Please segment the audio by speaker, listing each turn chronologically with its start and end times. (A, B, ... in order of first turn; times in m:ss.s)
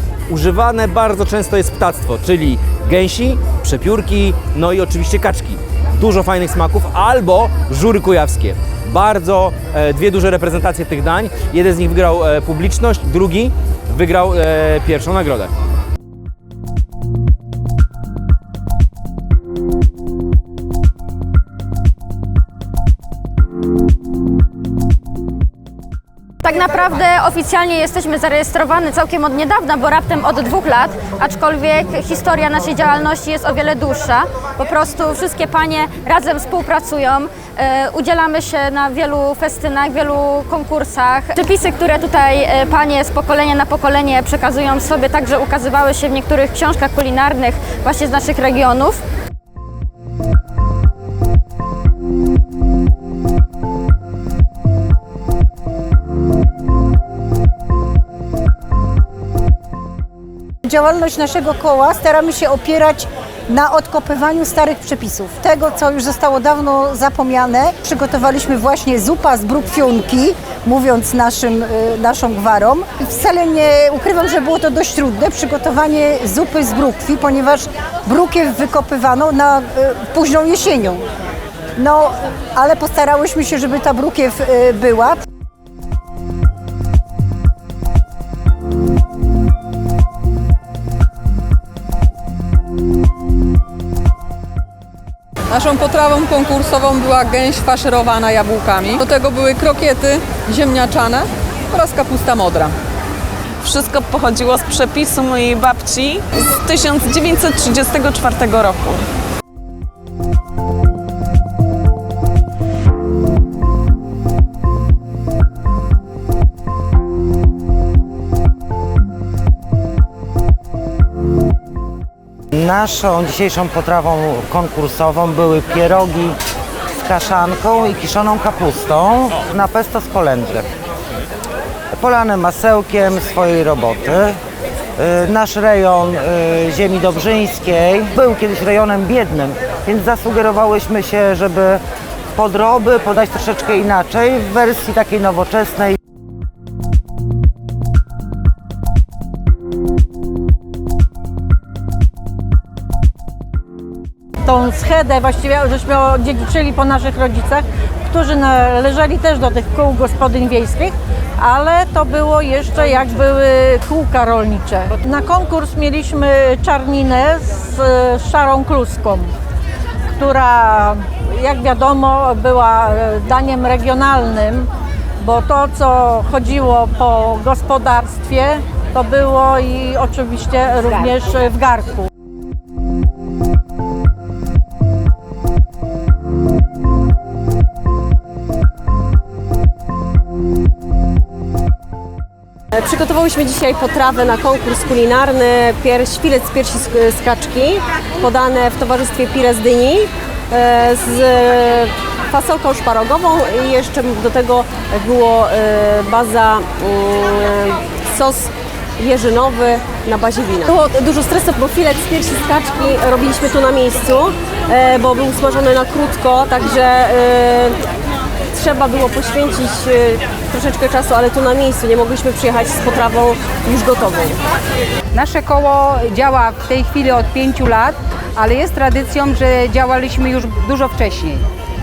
0:00.3-0:15.5 A
0:26.4-0:49.0 B
1:00.6-1:21.0 C
1:21.8-1:25.2 C
1:35.5-1:42.8 D
1:43.6-1:49.0 E
2:02.5-2:06.4 F
2:07.0-2:10.7 F
2:11.9-2:14.4 F
2:15.0-2:21.8 F
2:22.3-2:26.0 F
2:34.4-2:49.3 G
2:50.1-3:02.1 G
3:12.7-3:37.8 H
3:38.5-3:44.4 H
3:45.1-3:51.4 I